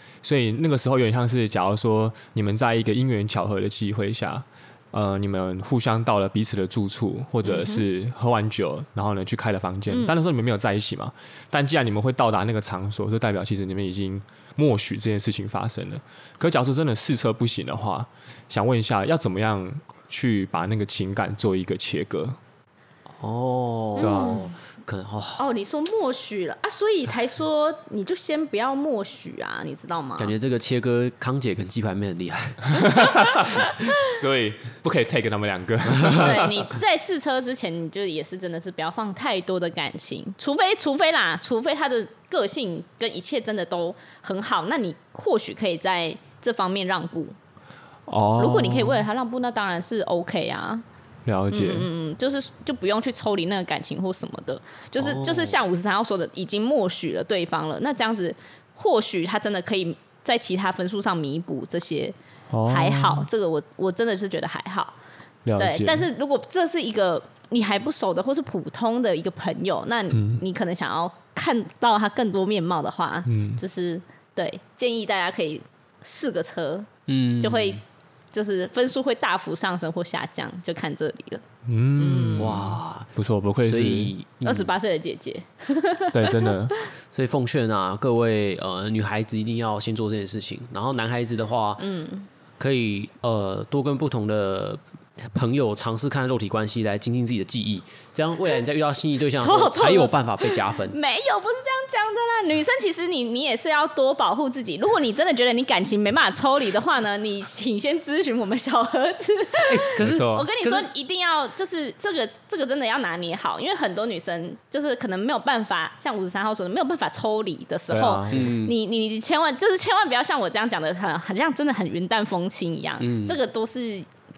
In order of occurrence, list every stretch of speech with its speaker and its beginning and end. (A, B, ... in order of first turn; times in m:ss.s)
0:00.2-0:22.4 A
0:07.4-0:07.8 B
0:23.2-0:25.4 C
0:24.0-0:24.5 B
0:24.0-0:24.5 A
0:25.4-0:30.3 B
0:30.2-0:32.8 C
0:32.7-0:36.7 A
0:35.9-0:36.3 C
0:36.1-0:47.3 B
0:48.1-0:49.0 A
0:48.4-0:50.8 B
0:51.2-0:51.9 A
0:51.5-1:02.1 B
0:55.0-0:55.6 C
1:02.5-1:03.3 A
1:02.7-1:04.9 B
1:05.4-1:06.1 A
1:05.6-1:16.9 B
1:10.1-1:10.4 A
1:13.2-1:13.6 A
1:17.1-1:17.8 C
1:17.4-1:17.8 B
1:18.3-1:21.4 B
1:21.6-1:24.1 A
1:22.0-1:22.6 B
1:22.4-1:23.1 C
1:23.6-1:24.7 C
1:24.4-1:26.9 B
1:26.1-1:26.8 A
1:27.1-1:31.8 C
1:31.8-1:32.3 B
1:32.6-1:41.0 C
1:39.4-2:04.1 B
1:49.6-1:50.9 C
1:50.0-1:50.5 A
1:57.9-1:58.5 A
1:58.3-1:58.7 C
2:03.0-2:03.4 C